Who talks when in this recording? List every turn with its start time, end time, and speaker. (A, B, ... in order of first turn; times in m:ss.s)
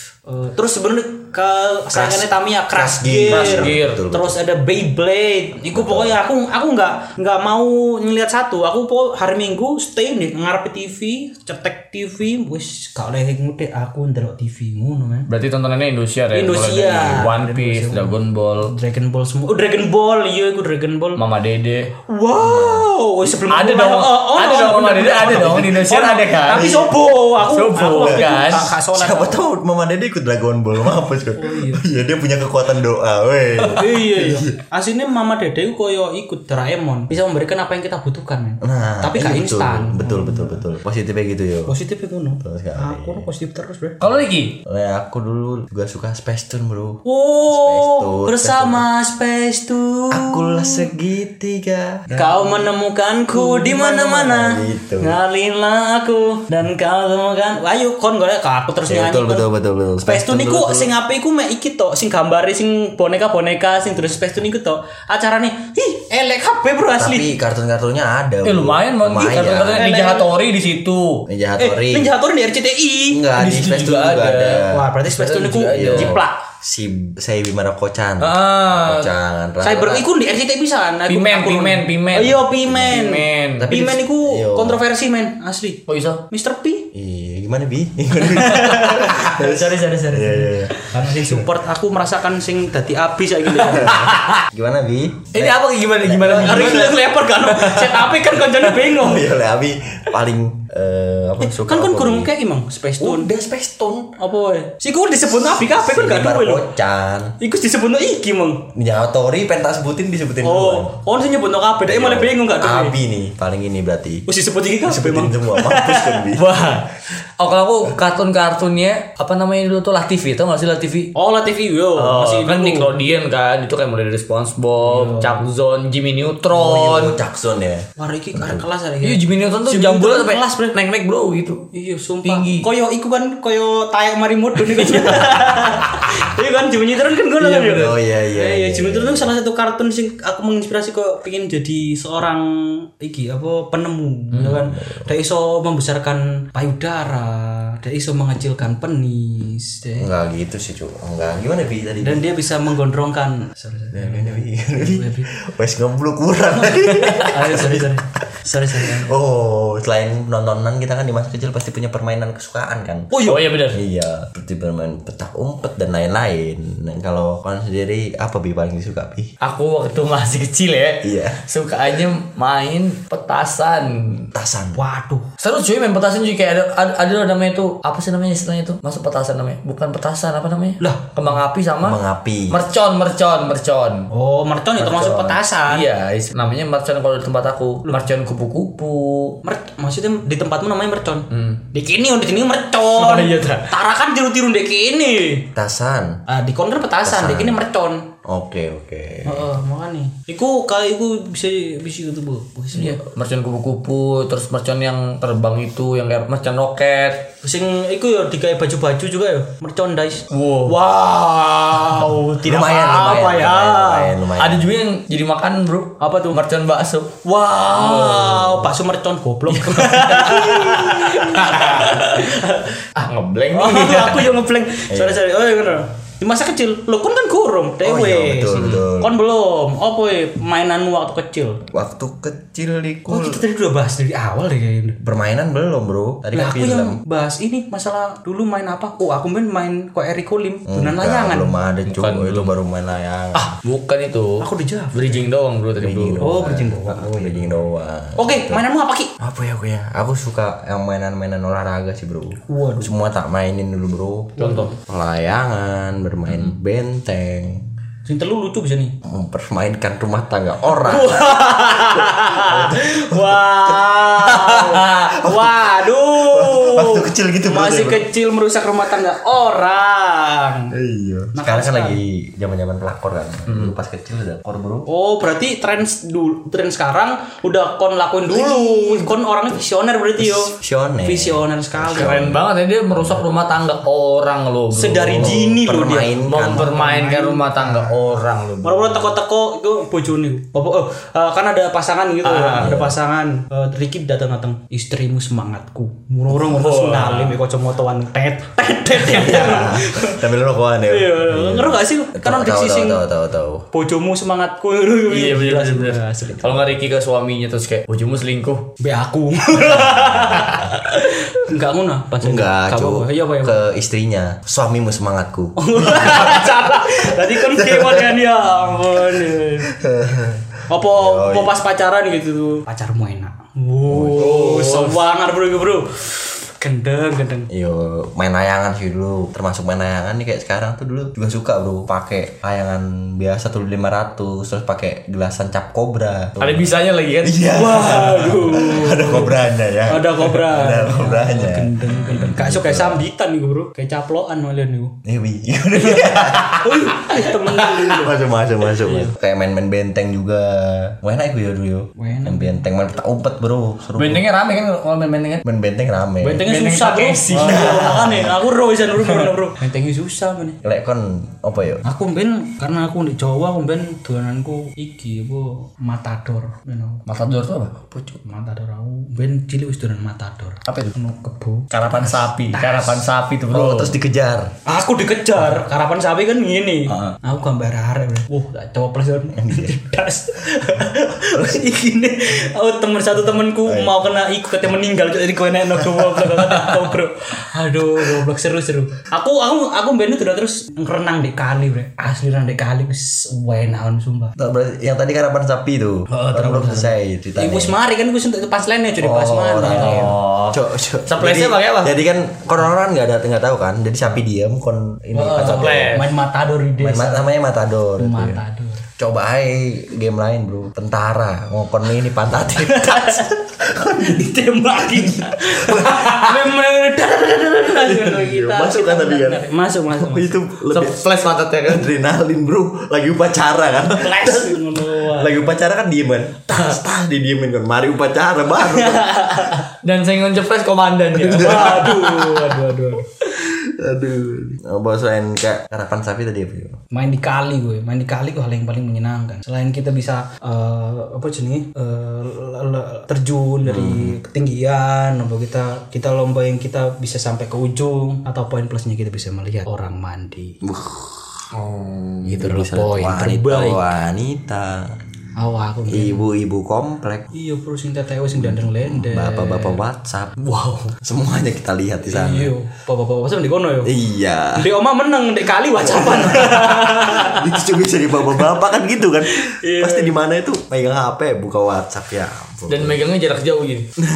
0:00.3-0:15.3 A
0:01.9-0:04.4 B
0:03.3-0:04.0 C
0:05.7-0:06.2 B
0:15.3-0:18.7 C
0:16.3-0:21.2 A
0:21.2-0:21.9 C
0:22.1-0:29.4 A
0:23.4-0:28.7 C
0:27.9-0:34.6 B
0:31.4-0:31.8 A
0:33.7-0:40.6 A
0:38.6-0:41.7 B
0:41.7-0:44.0 A
0:42.4-0:43.3 B
0:44.0-0:44.6 C
0:44.6-0:48.9 B
0:47.0-0:50.9 A
0:50.1-0:52.7 B
0:52.1-0:59.5 A
0:53.3-0:55.2 B
0:58.9-1:00.9 B
1:00.0-1:07.4 A
1:07.0-1:09.9 B
1:08.4-1:11.2 C
1:09.5-1:10.3 A
1:11.3-1:12.1 B
1:11.6-1:13.3 A
1:13.1-1:14.9 B
1:13.4-1:16.2 C
1:14.6-1:16.4 A
1:15.7-1:20.1 B
1:18.2-1:19.1 C
1:19.6-1:26.9 A
1:21.1-1:23.7 C
1:22.2-1:23.0 B
1:23.6-1:24.8 B
1:25.9-1:26.2 C
1:26.9-1:30.8 B
1:28.2-1:34.0 A
1:33.6-1:34.4 C
1:33.6-1:36.7 B
1:35.3-1:38.1 C
1:36.2-1:39.3 A
1:38.9-1:42.3 B
1:41.4-1:43.3 A
1:43.0-1:44.1 B
1:44.2-1:46.7 A
1:45.3-1:47.4 B
1:47.4-1:48.7 A
1:48.7-1:50.9 B
1:50.4-1:53.0 A
1:51.8-1:54.2 B
1:54.3-1:56.3 A
1:54.8-1:56.5 B
1:56.4-2:01.1 C
2:01.1-2:03.0 A
2:02.0-2:07.2 C
2:04.8-2:05.4 A
2:06.5-2:08.6 B
2:08.0-2:10.7 A
2:09.0-2:11.7 C
2:11.7-2:30.1 A
2:12.2-2:12.7 C
2:14.7-2:15.7 C
2:17.4-2:17.8 C
2:17.6-2:19.3 B
2:24.3-2:24.6 C
2:24.6-2:25.1 B
2:30.0-2:32.2 B
2:32.0-2:35.3 A
2:33.9-2:38.0 B
2:36.4-2:39.1 A
2:38.7-2:43.1 B
2:43.1-2:43.4 A
2:43.2-2:43.8 C
2:43.7-2:49.3 B
2:49.4-2:54.3 C
2:51.0-2:51.4 B
2:54.3-2:54.8 B
2:54.8-2:55.2 A
2:55.4-3:02.0 C
3:00.8-3:01.2 A
3:01.8-3:02.6 B
3:02.5-3:04.1 C
3:04.1-3:05.9 A
3:04.8-3:09.4 C
3:09.4-3:15.5 A
3:11.3-3:11.6 C
3:12.9-3:13.6 C
3:15.5-3:16.2 B
3:16.3-3:18.1 A
3:17.0-3:17.6 B
3:18.2-3:19.5 B
3:19.2-3:23.0 A
3:22.7-3:27.3 C
3:27.4-3:34.1 A
3:30.3-3:30.8 C
3:32.4-3:34.7 B
3:34.4-3:38.6 C
3:36.0-3:36.4 A
3:37.2-3:42.8 A
3:39.5-3:42.2 C
3:43.0-3:44.3 C
3:43.5-3:51.6 A
3:44.9-3:45.2 B
3:47.8-3:49.1 B
3:48.5-3:48.9 C
3:51.7-3:53.4 B
3:53.1-3:55.0 A
3:55.0-3:57.0 B
3:56.3-4:01.6 A
4:00.7-4:03.5 B
4:01.9-4:02.5 C
4:03.3-4:06.3 C
4:04.4-4:05.2 A
4:05.8-4:08.6 B
4:06.2-4:07.6 A
4:08.2-4:09.1 A
4:09.2-4:17.6 B
4:12.5-4:12.9 A
4:14.4-4:14.7 A
4:14.4-4:14.7 C
4:18.1-4:19.0 A
4:19.0-4:21.4 B
4:20.8-4:30.8 A
4:22.2-4:23.8 B
4:24.4-4:28.1 B
4:30.7-4:34.9 B
4:31.4-4:32.0 A
4:33.5-4:33.7 C
4:34.9-4:40.5 A
4:40.2-4:43.2 B
4:41.0-4:42.2 A
4:41.9-4:45.4 C
4:44.7-4:48.0 A
4:45.2-4:46.7 B
4:46.2-4:49.1 C
4:48.6-5:00.2 A
4:52.2-4:52.7 C
4:52.6-4:53.0 B
4:56.3-4:57.4 C
4:59.0-5:03.6 B
5:00.9-5:03.0 A
5:03.7-5:06.7 A
5:05.1-5:08.7 C
5:08.8-5:13.6 A
5:09.8-5:10.5 B
5:12.2-5:16.4 B
5:15.6-5:19.7 A
5:17.4-5:18.2 B
5:19.6-5:21.5 B
5:20.7-5:27.5 A
5:23.9-5:24.2 B
5:24.1-5:25.0 C
5:27.5-5:36.7 B
5:36.4-5:37.4 C
5:37.2-5:43.0 B
5:37.5-5:44.9 A
5:45.0-5:46.5 B
5:46.0-5:47.2 C
5:46.6-5:48.1 A
5:47.9-5:54.2 B
5:52.0-5:52.6 A
5:54.0-5:55.4 C
5:55.4-5:56.4 B
5:56.2-6:00.6 A
5:56.4-5:58.2 C
5:57.4-5:58.3 B
6:00.6-6:01.8 B
6:01.8-6:07.0 A
6:07.1-6:08.2 C
6:08.2-6:13.1 A
6:10.7-6:10.9 C
6:11.7-6:13.9 C
6:13.5-6:14.5 B
6:14.6-6:34.4 A
6:16.9-6:17.2 C
6:19.4-6:19.8 B
6:23.6-6:24.0 B
6:34.4-6:37.8 B
6:36.1-6:40.1 A
6:39.0-6:46.0 B
6:39.6-6:42.0 C
6:45.1-6:47.2 A
6:45.4-6:46.1 C
6:46.8-6:48.4 B
6:48.0-6:48.8 A
6:49.0-6:54.2 B
6:52.6-6:53.3 A
6:54.0-7:00.4 A
6:54.9-6:56.0 B
6:57.9-7:01.0 B
7:00.7-7:01.9 C
7:01.6-7:09.1 B
7:03.8-7:05.3 A
7:08.6-7:09.6 A
7:09.8-7:12.0 C
7:11.2-7:12.4 B
7:11.3-7:13.1 A
7:13.4-7:16.8 B
7:16.9-7:30.6 A
7:23.6-7:24.2 B
7:30.6-7:31.3 B
7:31.5-7:33.2 C
7:32.3-7:33.8 A
7:32.3-7:35.0 B
7:35.4-7:36.3 A
7:35.9-7:37.3 B
7:37.3-7:39.8 A
7:38.3-7:42.5 B
7:42.1-7:43.9 A
7:43.8-7:44.6 B
7:44.5-7:47.6 A
7:45.8-7:53.0 B
7:49.3-7:50.2 A
7:52.7-7:53.9 C